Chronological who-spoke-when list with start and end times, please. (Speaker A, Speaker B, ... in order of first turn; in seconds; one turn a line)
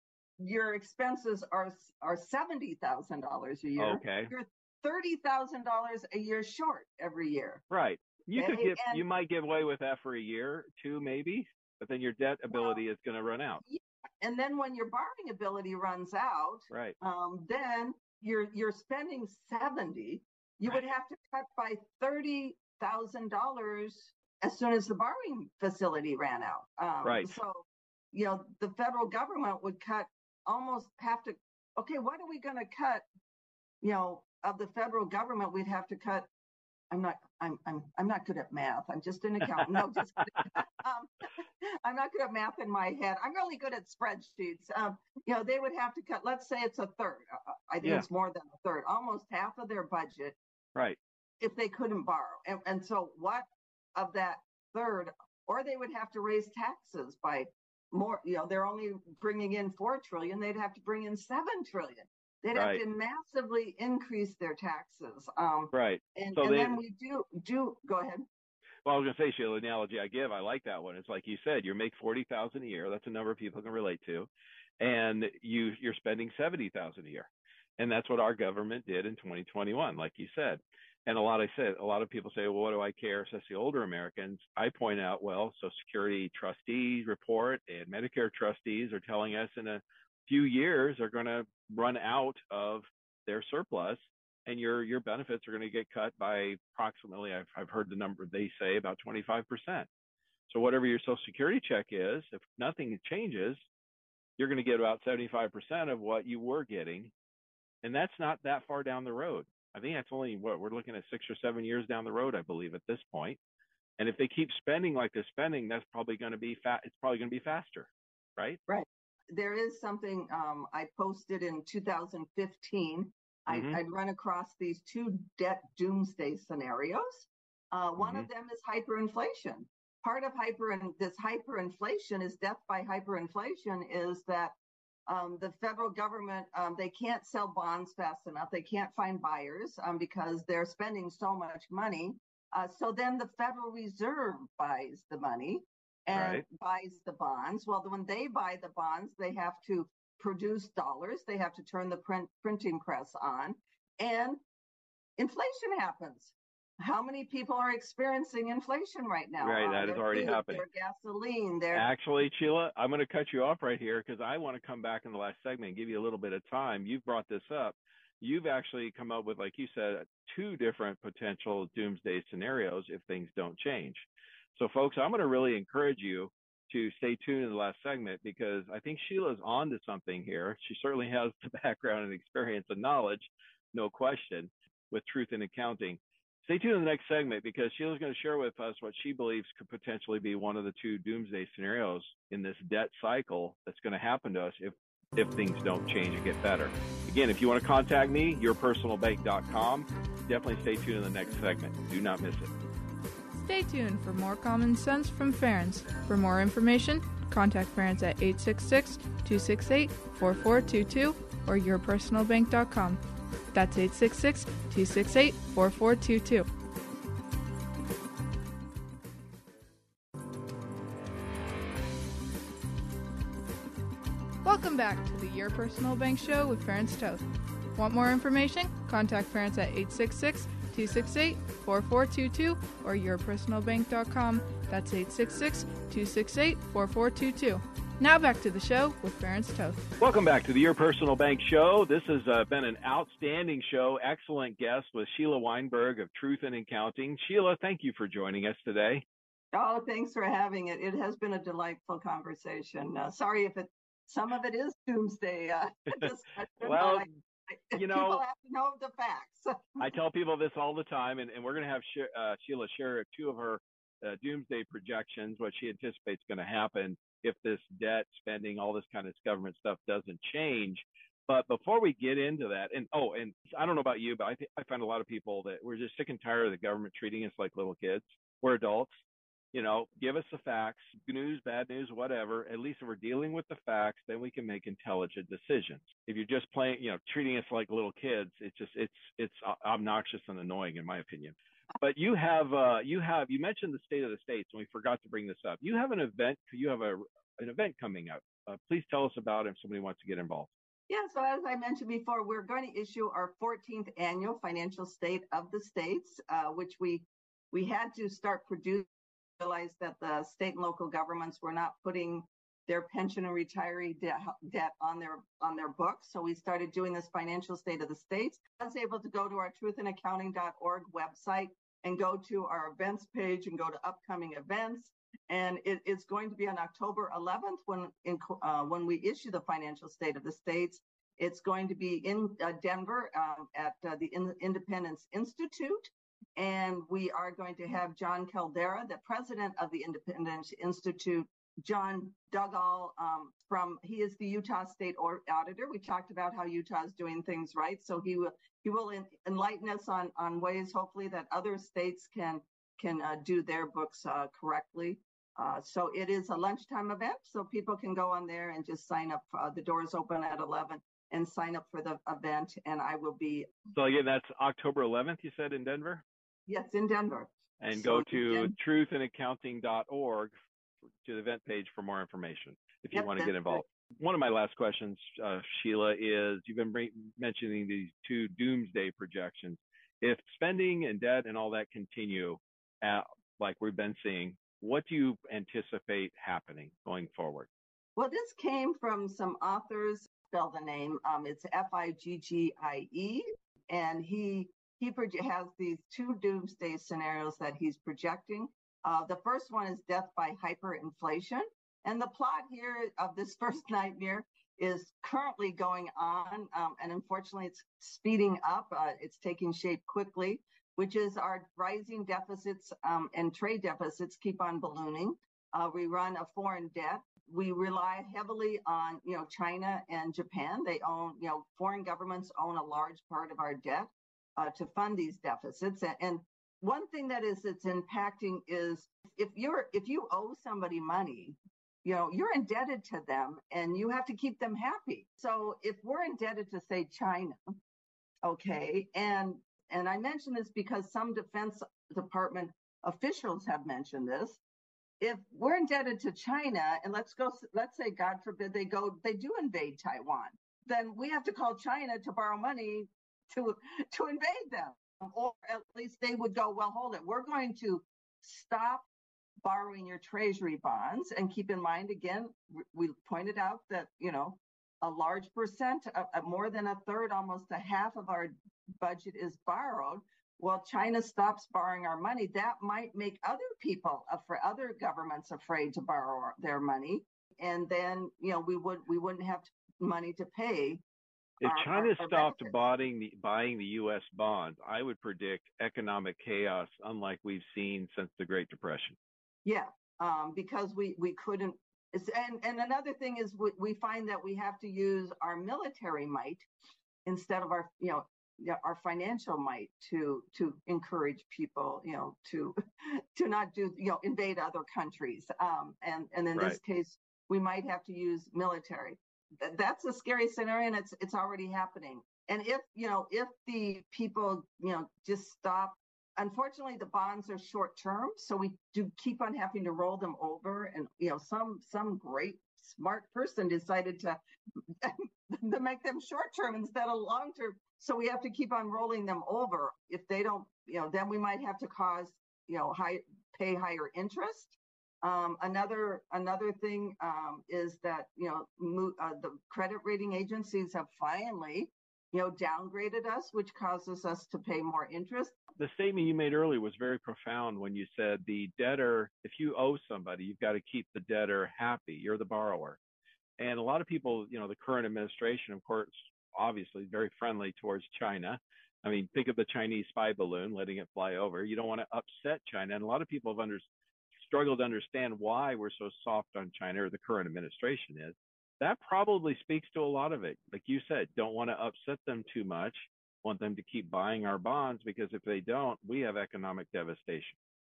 Speaker A: 0.4-7.6
Speaker B: 3.8-4.3
Speaker B: 7.7-13.6
Speaker A: 8.3-9.0
Speaker A: 12.5-12.8
Speaker A: 13.6-33.0
Speaker B: 16.7-16.9
Speaker B: 27.0-27.3
Speaker A: 33.8-36.3
Speaker A: 36.9-50.4
Speaker A: 51.4-68.2
Speaker B: 62.5-62.8
Speaker B: 65.7-66.8
Speaker B: 68.8-74.3
Speaker B: 74.8-99.9
Speaker B: 100.5-103.6
Speaker B: 104.4-107.1
Speaker B: 107.8-113.4
Speaker B: 114.0-118.6
Speaker A: 118.7-134.5
Speaker B: 123.5-123.8
Speaker B: 128.0-128.3
Speaker A: 135.1-154.4
Speaker B: 146.1-146.4
Speaker A: 155.2-161.9
Speaker B: 159.4-160.6
Speaker B: 161.7-174.0
Speaker B: 174.6-202.5
Speaker C: 203.4-213.0
Speaker C: 213.5-216.5
Speaker C: 224.4-227.2
Speaker C: 227.8-239.8
Speaker B: 240.0-249.0
Speaker A: 249.5-259.8
Speaker B: 256.6-257.1
Speaker B: 257.7-258.2
Speaker B: 259.8-279.0
Speaker B: 279.5-300.5
Speaker A: 300.9-308.9
Speaker A: 309.4-363.5
Speaker B: 363.7-366.0
Speaker A: 366.5-368.5
Speaker B: 367.6-370.3
Speaker B: 371.0-387.5
Speaker A: 372.9-373.6
Speaker A: 387.9-437.4
Speaker A: 438.2-444.4
Speaker A: 445.0-458.8
Speaker A: 459.4-480.8
Speaker B: 481.4-488.9
Speaker A: 481.4-482.6
Speaker A: 489.4-496.5
Speaker A: 497.1-524.2
Speaker A: 524.8-545.4
Speaker B: 545.6-552.8
Speaker B: 553.4-577.4